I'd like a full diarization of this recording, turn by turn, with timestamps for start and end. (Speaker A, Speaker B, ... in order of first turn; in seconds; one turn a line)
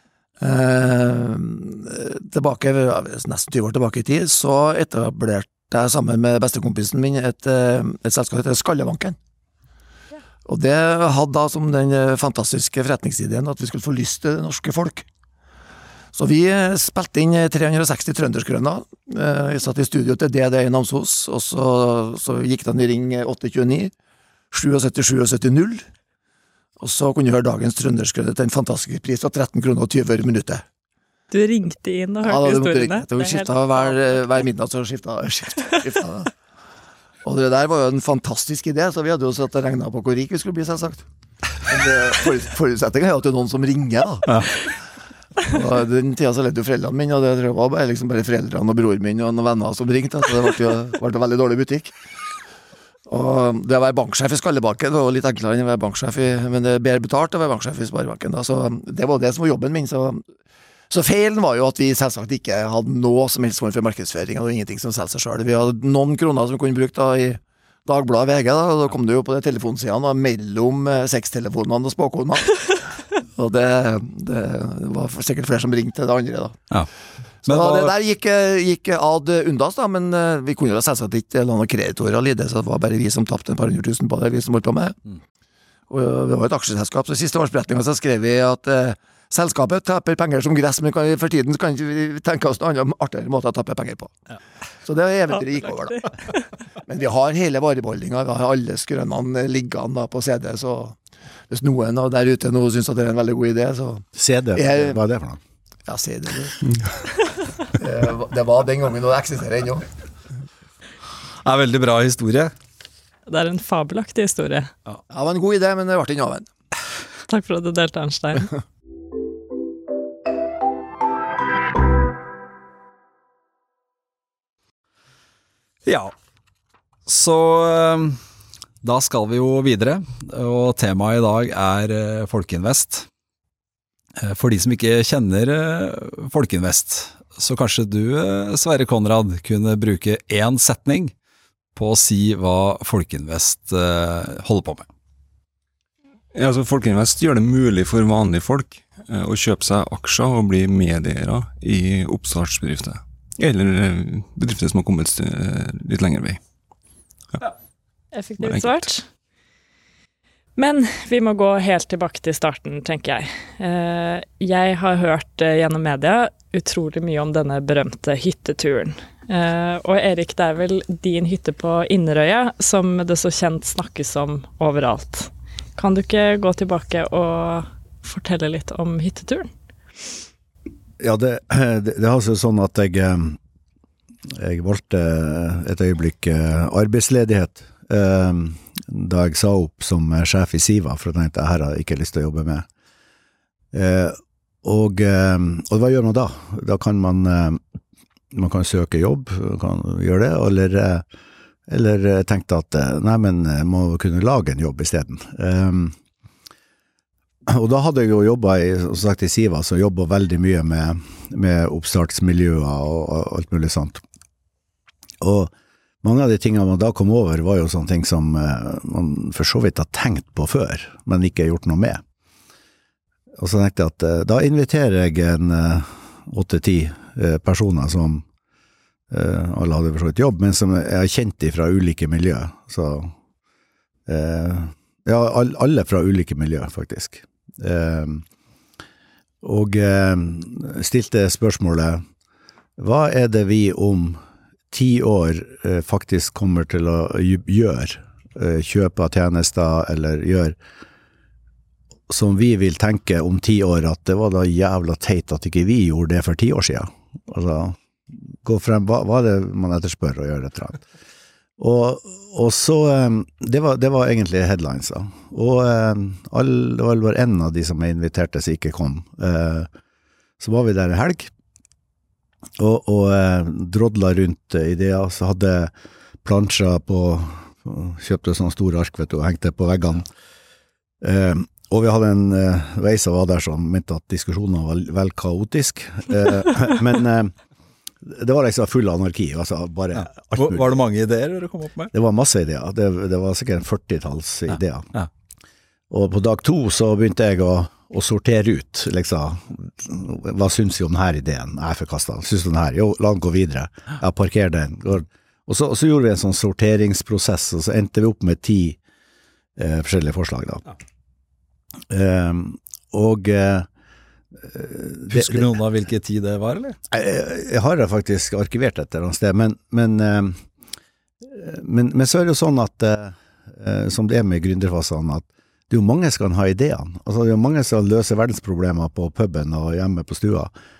Speaker A: 0.4-9.2
Speaker A: 10.5-15.1
Speaker A: 16.1-23.9
Speaker A: 24.5-25.9
Speaker A: 26.8-30.6
Speaker B: 31.3-33.9
Speaker A: 32.2-36.3
Speaker A: 37.2-41.0
Speaker A: 41.6-44.7
Speaker A: 45.4-51.9
Speaker A: 53.1-60.2
Speaker A: 60.9-76.6
Speaker A: 77.4-85.1
Speaker C: 77.5-77.9
Speaker A: 85.9-94.2
Speaker A: 94.8-96.1
Speaker A: 96.8-101.0
Speaker A: 101.5-105.0
Speaker D: 104.1-105.4
Speaker A: 105.9-106.6
Speaker E: 106.6-106.9
Speaker A: 107.7-109.9
Speaker C: 111.4-112.5
Speaker B: 113.3-114.7
Speaker A: 115.1-116.5
Speaker B: 117.3-118.5
Speaker C: 125.8-126.1
Speaker C: 127.0-128.2
Speaker C: 128.8-133.1
Speaker C: 134.2-141.1
Speaker C: 141.7-144.9
Speaker E: 146.3-156.4
Speaker B: 158.1-159.1
Speaker E: 158.4-158.9
Speaker B: 160.6-179.5
Speaker D: 181.0-183.4
Speaker D: 184.3-192.7
Speaker D: 193.7-197.6
Speaker D: 198.3-201.0
Speaker D: 201.7-205.9
Speaker D: 207.5-214.0
Speaker D: 215.2-222.0
Speaker D: 223.4-228.2
Speaker D: 229.1-233.1
Speaker D: 234.1-238.2
Speaker D: 239.4-242.0
Speaker D: 242.8-244.2
Speaker D: 244.7-250.6
Speaker D: 252.1-257.8
Speaker D: 258.3-260.9
Speaker D: 261.6-269.7
Speaker D: 270.4-271.3
Speaker D: 272.6-275.7
Speaker D: 276.2-280.1
Speaker D: 281.0-287.3
Speaker D: 288.0-290.8
Speaker C: 289.9-291.9
Speaker D: 291.9-294.9
Speaker D: 295.9-308.8
Speaker D: 309.6-310.6
Speaker D: 311.9-313.7
Speaker D: 314.4-315.6
Speaker C: 315.1-316.8
Speaker D: 316.9-320.4
Speaker D: 321.2-330.5